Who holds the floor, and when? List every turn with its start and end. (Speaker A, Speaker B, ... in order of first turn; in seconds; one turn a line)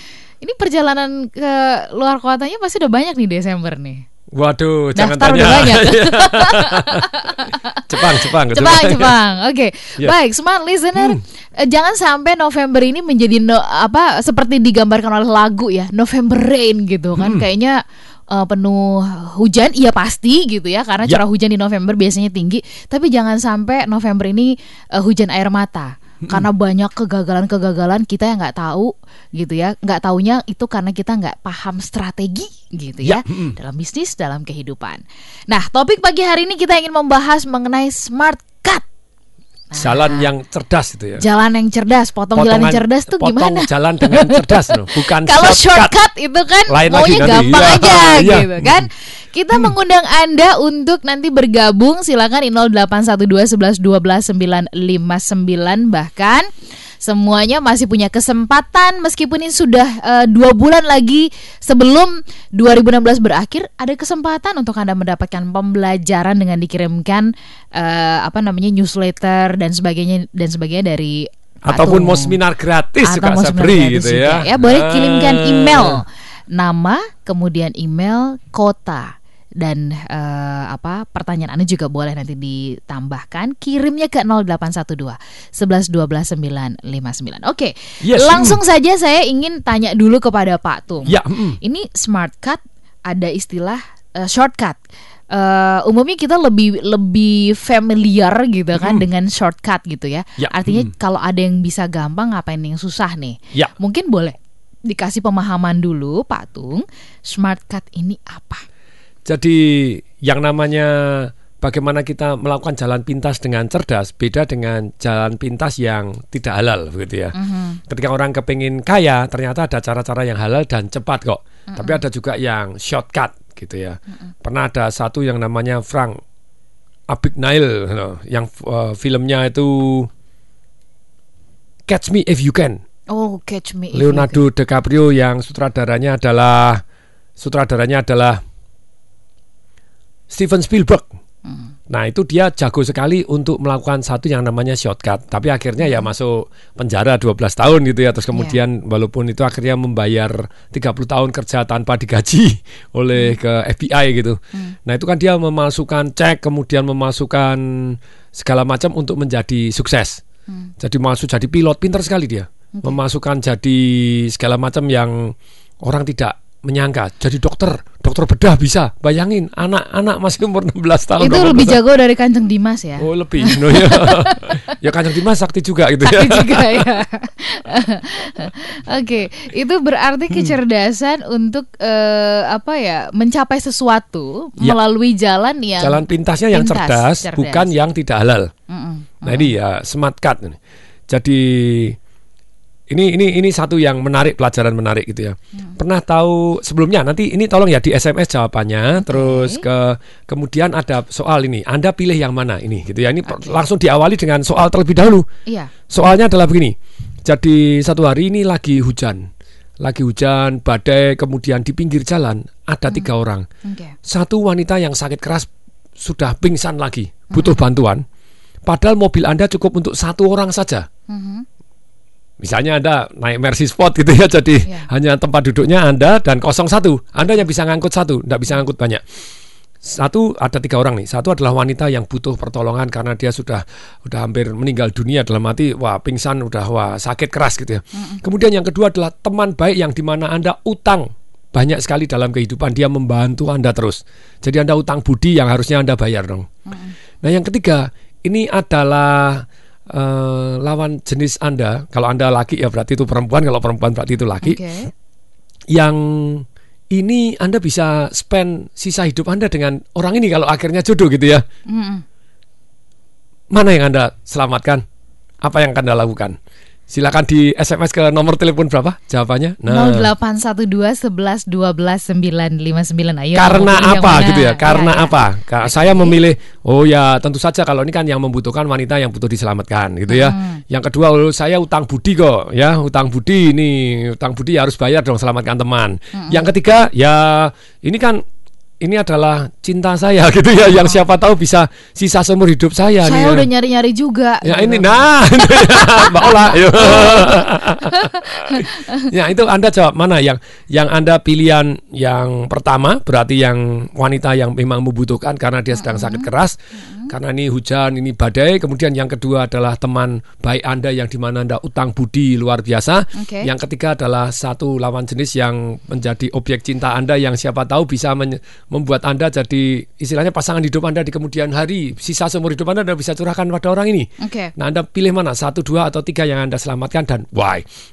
Speaker A: 0.4-4.0
Speaker B: 4.3-7.0
Speaker A: 5.0-17.8
Speaker B: 7.9-9.1
Speaker B: 10.9-11.2
Speaker B: 17.2-17.4
Speaker A: 18.3-38.8
Speaker B: 33.0-33.6
Speaker A: 39.7-40.3
Speaker B: 39.8-41.2
Speaker A: 41.2-56.5
Speaker B: 42.4-45.9
Speaker B: 46.7-48.9
Speaker A: 57.0-72.4
Speaker B: 71.6-76.0
Speaker A: 73.0-94.8
Speaker B: 88.0-88.6
Speaker B: 91.0-91.6
Speaker A: 95.3-108.6
Speaker B: 98.8-99.0
Speaker B: 100.4-100.9
Speaker B: 109.2-117.3
Speaker A: 117.3-117.8
Speaker B: 117.9-126.2
Speaker A: 121.7-122.0
Speaker B: 127.1-130.1
Speaker B: 131.9-132.8
Speaker A: 133.1-134.4
Speaker B: 133.9-136.8
Speaker B: 137.4-138.4
Speaker B: 140.3-141.1
Speaker A: 141.4-141.7
Speaker B: 141.9-160.2
Speaker B: 160.8-171.8
Speaker A: 171.2-174.6
Speaker B: 173.0-176.8
Speaker A: 176.0-187.7
Speaker B: 185.8-188.5
Speaker A: 188.7-189.5
Speaker B: 189.2-190.6
Speaker B: 191.1-192.0
Speaker B: 192.9-205.3
Speaker A: 199.0-199.6
Speaker A: 203.2-203.6
Speaker A: 205.5-205.7
Speaker B: 205.9-209.2
Speaker B: 209.8-213.4
Speaker A: 213.6-213.9
Speaker B: 214.0-215.5
Speaker B: 216.0-218.0
Speaker A: 217.3-217.6
Speaker B: 218.7-220.8
Speaker A: 221.1-221.4
Speaker B: 222.4-229.0
Speaker B: 229.8-246.5
Speaker A: 237.9-238.2
Speaker A: 246.7-246.9
Speaker B: 247.2-254.6
Speaker A: 254.4-254.9
Speaker B: 255.7-261.4
Speaker A: 261.7-262.0
Speaker B: 263.5-264.8
Speaker B: 265.4-266.4
Speaker B: 266.9-270.1
Speaker A: 269.7-276.2
Speaker B: 273.3-288.2
Speaker A: 280.1-280.6
Speaker A: 286.1-286.4
Speaker B: 288.8-293.5
Speaker A: 290.7-291.0
Speaker A: 293.0-299.0
Speaker B: 294.4-306.6
Speaker A: 305.8-306.3
Speaker A: 306.8-307.1
Speaker B: 307.1-327.6
Speaker A: 313.1-313.5
Speaker A: 324.2-324.5